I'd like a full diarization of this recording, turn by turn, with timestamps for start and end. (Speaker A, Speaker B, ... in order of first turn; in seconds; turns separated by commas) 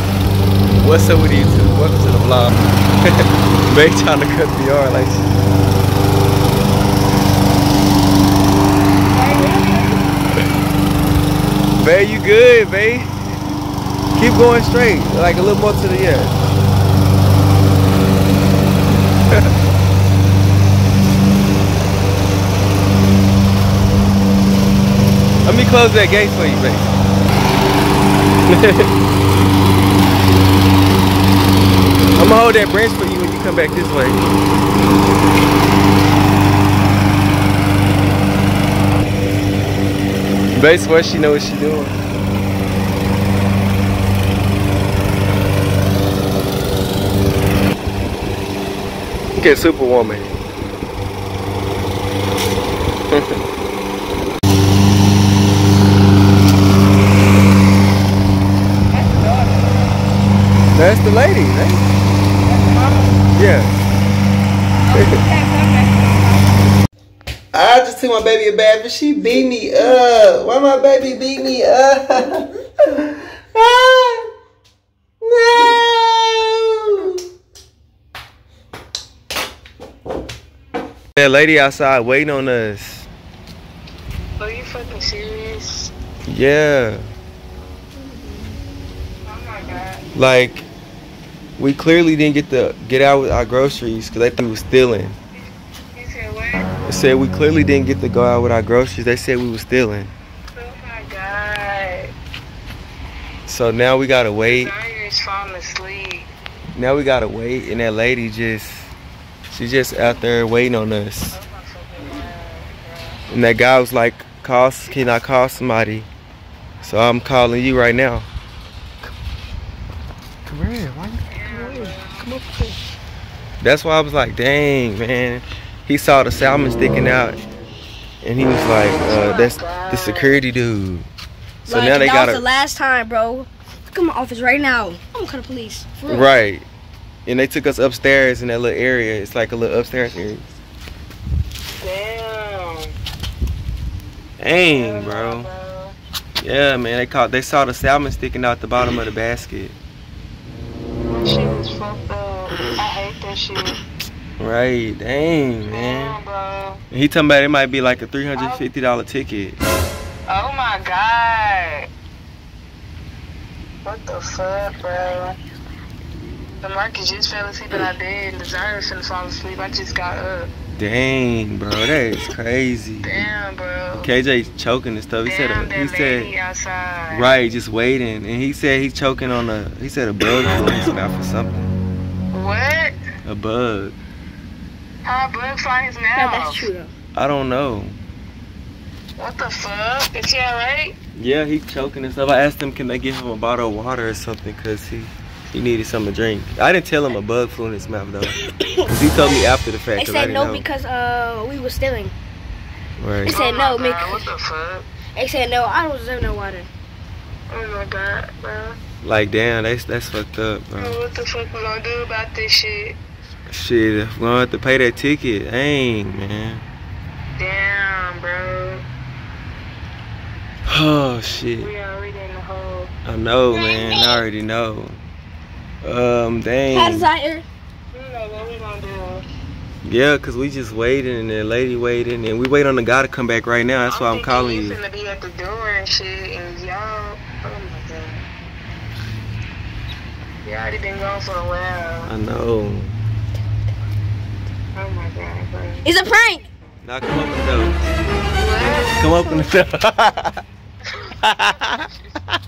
Speaker A: 0.7-5.4, Speaker B: 9.1-10.0, Speaker A: 11.8-13.1, Speaker A: 14.2-16.4, Speaker A: 25.4-26.9, Speaker A: 28.5-28.9, Speaker A: 32.2-34.2, Speaker A: 40.5-42.0, Speaker A: 49.4-50.4, Speaker A: 53.1-53.4, Speaker C: 58.9-60.1, Speaker A: 60.7-61.9, Speaker C: 62.4-63.2, Speaker A: 63.3-63.9, Speaker C: 64.9-66.6, Speaker A: 64.9-65.2, Speaker A: 67.5-74.2, Speaker A: 75.2-77.2, Speaker A: 81.2-83.1, Speaker C: 84.4-85.9, Speaker A: 86.3-87.0, Speaker B: 88.1-88.4, Speaker C: 89.2-90.0, Speaker A: 90.2-90.7, Speaker A: 91.6-95.2, Speaker C: 95.9-96.7, Speaker A: 96.8-100.1, Speaker C: 100.5-102.1, Speaker A: 103.5-104.7, Speaker C: 104.4-106.3, Speaker A: 106.8-108.9, Speaker A: 109.5-111.4, Speaker C: 111.3-113.2, Speaker A: 113.3-116.1, Speaker A: 116.8-118.3, Speaker A: 120.5-122.8, Speaker C: 121.3-122.3, Speaker A: 123.6-127.4, Speaker A: 128.2-131.1, Speaker C: 129.0-130.4, Speaker B: 131.7-136.3, Speaker A: 131.7-132.4, Speaker A: 136.1-136.7, Speaker A: 137.3-140.6, Speaker C: 141.8-142.9, Speaker A: 144.4-145.5, Speaker C: 144.7-145.9, Speaker A: 146.4-149.8, Speaker C: 151.1-153.8, Speaker A: 154.4-156.2, Speaker C: 155.7-156.8, Speaker A: 156.9-159.6, Speaker C: 158.3-158.7, Speaker C: 160.3-161.9, Speaker C: 163.8-165.3, Speaker C: 166.6-170.5, Speaker A: 170.8-173.2, Speaker C: 173.0-174.1, Speaker A: 173.9-176.3, Speaker C: 175.2-177.3, Speaker A: 177.1-181.7, Speaker C: 182.3-183.0, Speaker A: 183.2-184.0, Speaker C: 185.0-186.7, Speaker B: 186.2-186.9, Speaker A: 187.2-188.0, Speaker C: 189.2-191.0, Speaker A: 191.2-200.7, Speaker B: 199.9-202.1, Speaker A: 203.0-203.4, Speaker B: 203.2-204.2, Speaker C: 203.3-204.9, Speaker B: 205.2-206.7, Speaker C: 207.5-208.8, Speaker A: 209.0-211.0, Speaker C: 210.8-213.0, Speaker A: 213.5-216.7, Speaker C: 217.4-218.8, Speaker A: 220.7-221.7, Speaker C: 221.6-222.9, Speaker A: 223.1-225.0, Speaker C: 223.5-224.2, Speaker A: 225.8-227.1, Speaker B: 226.7-227.5, Speaker C: 227.9-229.2, Speaker A: 229.8-234.8, Speaker C: 233.9-238.2, Speaker C: 240.4-242.1, Speaker A: 242.1-242.9, Speaker C: 244.8-245.9, Speaker B: 245.8-246.5, Speaker A: 246.8-247.8, Speaker C: 248.4-249.0, Speaker A: 249.0-250.4, Speaker B: 249.2-249.5, Speaker C: 250.9-252.2, Speaker A: 251.2-252.4